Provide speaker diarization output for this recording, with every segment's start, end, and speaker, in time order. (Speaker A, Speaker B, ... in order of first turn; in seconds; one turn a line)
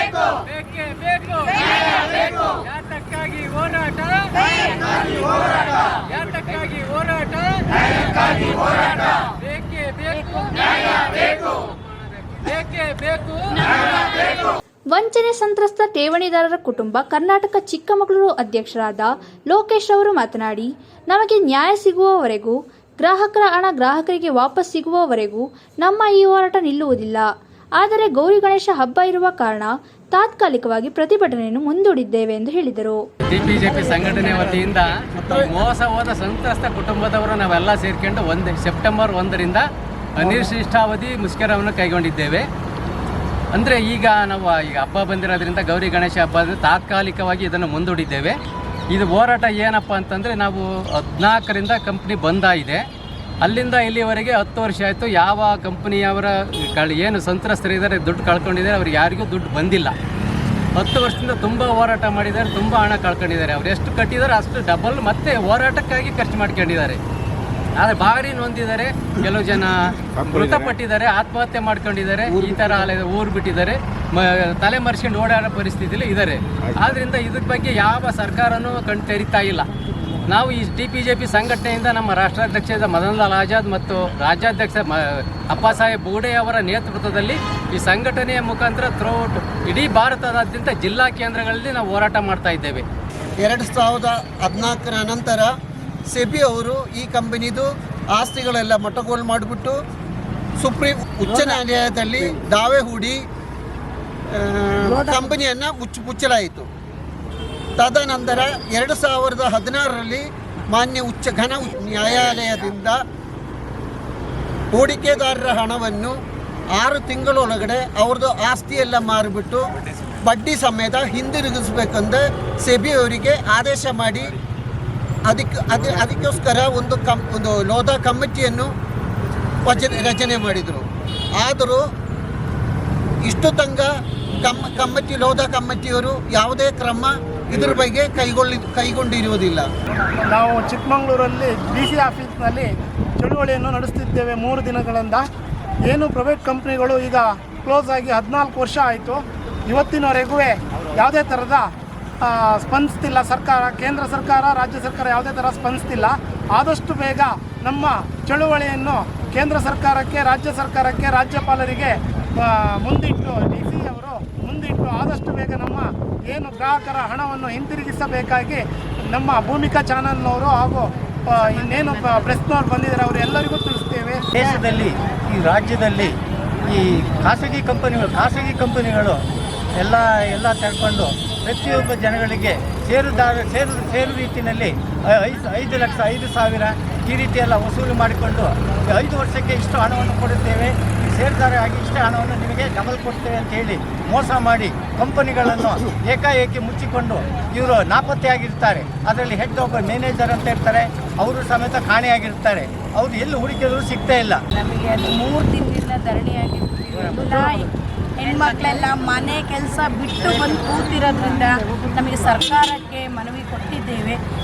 Speaker A: 0.2-13.6
Speaker B: 14.9-27.3
Speaker B: 27.8-33.0
Speaker A: 33.3-39.6
Speaker C: 33.6-35.5
Speaker A: 40.2-42.5
Speaker A: 43.5-48.4
Speaker A: 48.9-52.8
Speaker A: 53.4-59.9
Speaker A: 60.8-67.0
Speaker A: 67.8-79.7
Speaker C: 72.3-72.9
Speaker A: 80.2-92.8
Speaker C: 93.4-95.5
Speaker C: 96.1-99.8
Speaker C: 100.6-103.2
Speaker C: 104.3-106.7
Speaker C: 107.8-113.0
Speaker C: 114.7-116.2
Speaker C: 116.7-119.6
Speaker C: 120.2-124.3
Speaker C: 125.3-128.7
Speaker C: 129.6-130.8
Speaker C: 131.4-131.8
Speaker C: 133.2-139.7
Speaker D: 140.2-145.2
Speaker D: 145.9-151.7
Speaker D: 152.2-174.2
Speaker E: 174.3-179.2
Speaker E: 179.8-204.4
Speaker F: 204.5-214.2